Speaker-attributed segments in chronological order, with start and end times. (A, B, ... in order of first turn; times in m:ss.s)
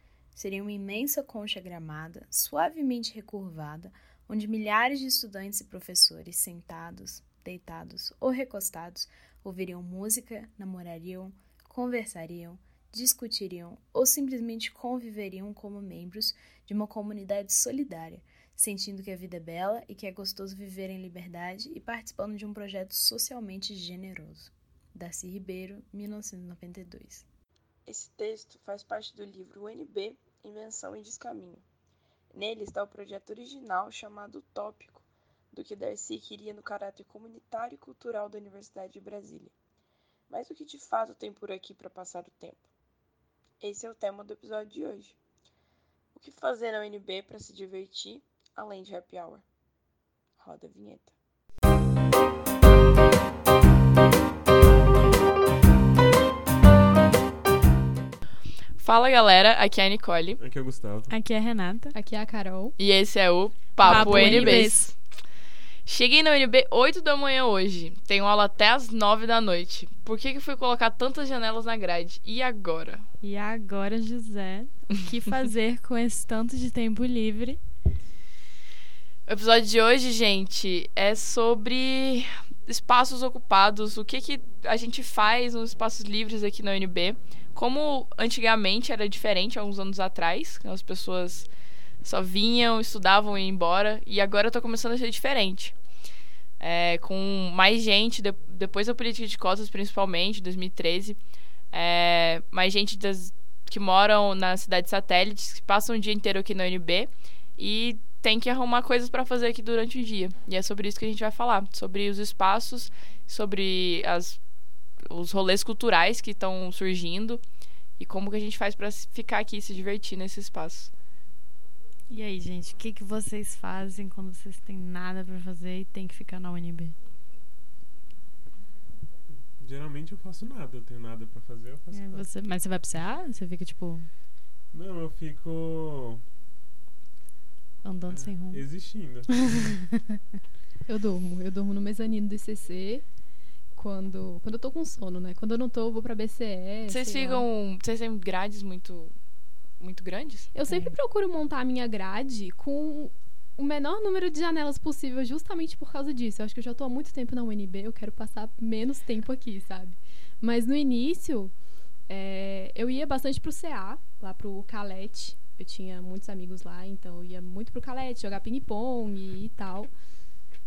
0:00.3-0:27.2 A
0:27.8-0:31.6 B
0:32.3-0:39.5 B
0:40.3-0:42.7 B
0:43.6-0:45.2 B
0:46.1-0:49.4 B
0:50.4-0:51.1 B
0:58.8-1:00.4 C
1:00.4-1:01.1 D
1:01.1-1:01.9 E
1:01.9-1:02.7 F
1:02.8-1:05.0 C
1:03.8-1:04.9 E
1:03.8-1:04.7 F
1:05.8-1:13.0 C
1:13.2-1:17.6 E
1:19.3-1:31.5 C
1:32.0-1:35.7 C
1:36.6-1:41.2 C
1:41.7-1:54.4 C
1:55.0-1:57.4 C
1:58.0-2:00.9 C
2:02.1-2:06.9 E
2:09.6-2:12.2 D
2:11.9-2:14.1 E
2:14.7-2:16.2 D
2:17.8-2:18.6 E
2:18.1-2:19.6 D
2:20.9-2:23.0 F
2:23.7-2:27.4 F
2:26.9-2:29.1 C
2:29.8-2:30.5 C
2:30.5-2:41.5 F
2:30.7-2:30.9 E
2:42.1-2:49.9 F